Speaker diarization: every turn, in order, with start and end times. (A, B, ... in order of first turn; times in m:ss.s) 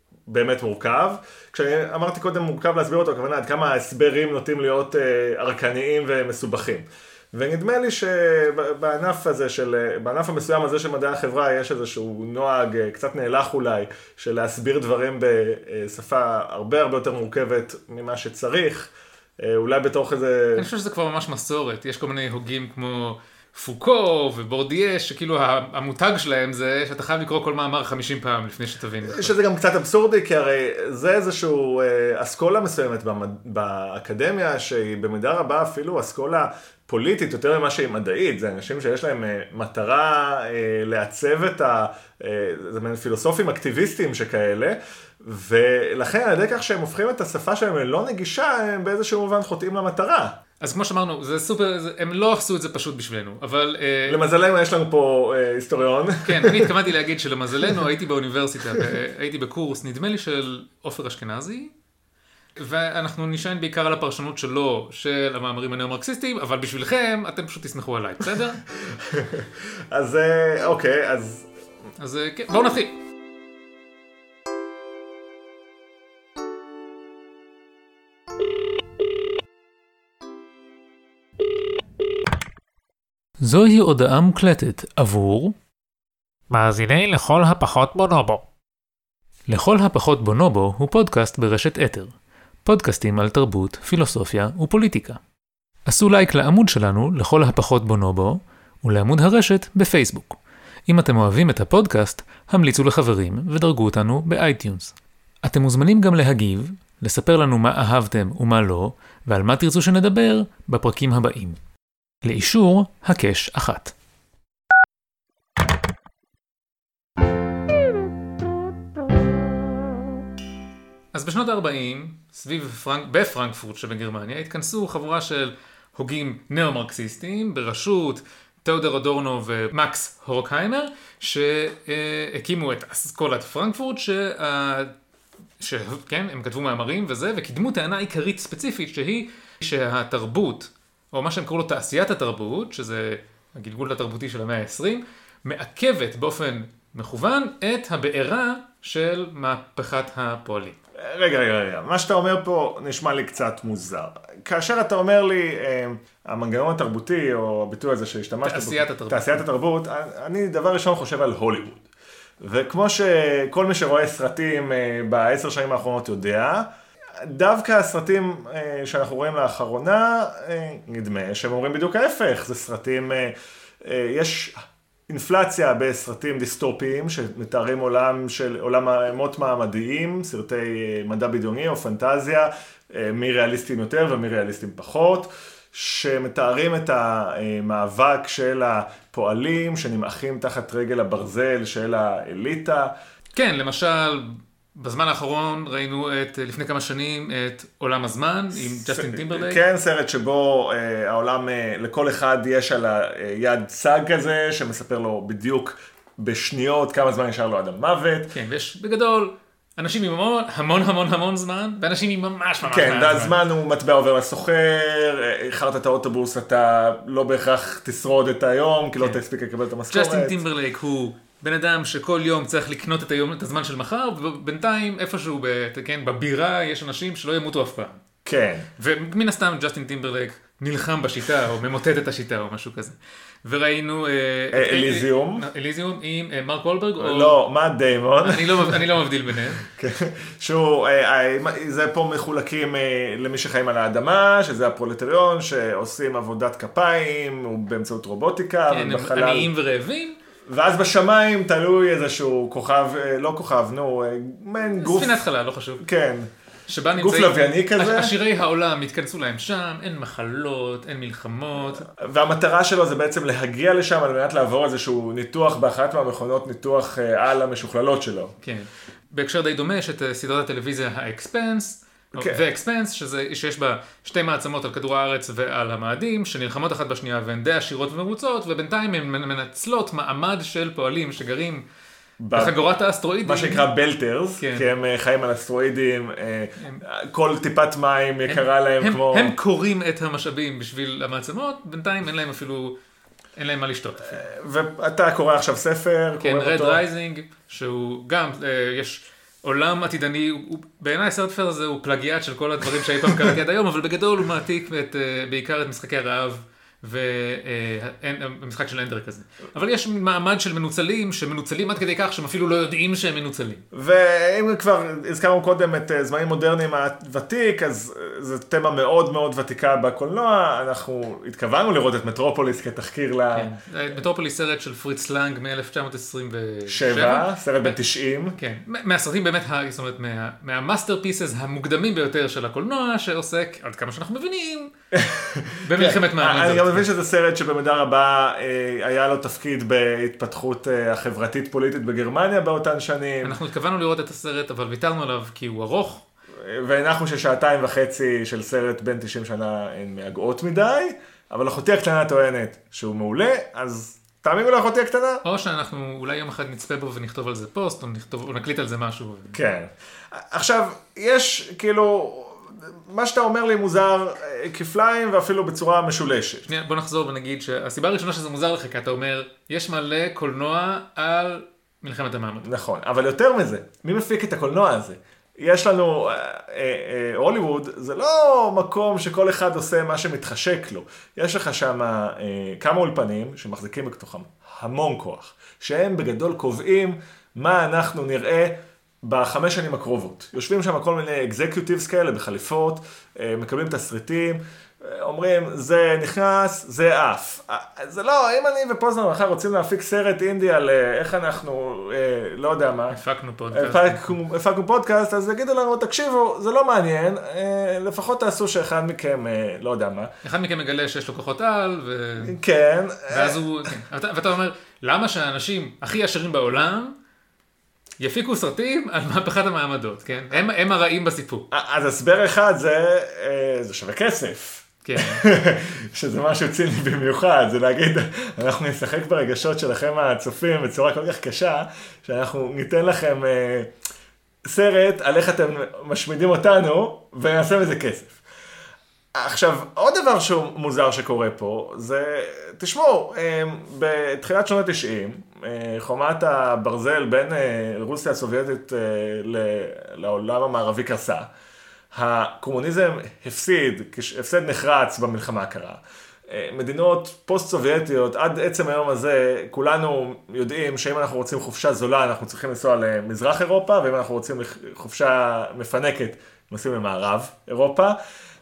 0:00.3-0:20.7 A
0:20.6-0:29.3 B
0:29.0-0:50.3 A
0:50.6-0:54.2 B
0:54.1-0:56.7 A
0:56.2-1:01.7 B
1:02.6-1:08.6 B
1:08.8-1:11.5 A
1:12.0-1:13.0 B
1:23.4-1:25.6 B
1:26.5-1:28.4 B
1:29.5-1:32.1 B
1:32.6-1:35.2 B
1:35.9-1:51.6 B
1:52.2-1:53.9 B
2:01.1-2:14.9 B
2:15.6-2:30.8 B
2:31.0-2:41.8 A
2:38.4-2:39.4 B
2:42.4-3:12.9 A
3:13.3-3:19.6 B
3:18.6-3:28.3 A
3:28.3-3:33.4 B
3:32.6-3:40.4 A
3:39.9-3:48.0 B
3:48.2-3:48.7 A
3:48.8-3:57.4 B
3:54.5-3:55.4 A
3:57.0-3:58.9 A
3:58.2-3:59.6 B
3:59.6-4:09.5 A
4:08.7-4:10.2 B
4:10.5-4:15.2 A
4:14.8-4:15.8 B
4:15.8-4:16.3 A
4:16.7-4:21.9 B
4:16.9-4:18.1 A
4:21.8-4:28.3 A
4:28.4-4:41.6 B
4:32.2-4:32.4 A
4:42.2-4:42.6 A
4:42.3-4:43.6 B
4:43.2-4:49.4 A
4:44.4-4:44.7 B
4:46.6-4:46.8 B
4:48.3-4:52.7 B
4:53.4-4:54.2 B
4:54.1-4:56.8 A
4:56.2-5:13.6 B
5:13.7-5:23.5 A
5:23.3-5:27.8 B
5:26.7-5:28.4 A
5:28.4-5:34.7 B
5:34.9-5:43.4 A
5:35.6-5:36.8 B
5:43.2-5:46.0 B
5:46.4-5:55.2 A
5:55.2-5:59.4 B
5:59.3-6:06.5 A
6:06.4-6:12.5 B
6:12.4-6:43.0 A
6:42.9-6:44.1 B
6:43.5-6:50.1 A
6:50.2-6:52.4 B
6:52.2-6:53.7 A
6:53.1-6:56.9 B
6:58.0-7:01.5 B
7:01.5-7:13.7 A
7:04.8-7:05.2 B
7:14.5-7:18.2 A
7:19.2-7:31.3 A
7:31.9-7:48.0 A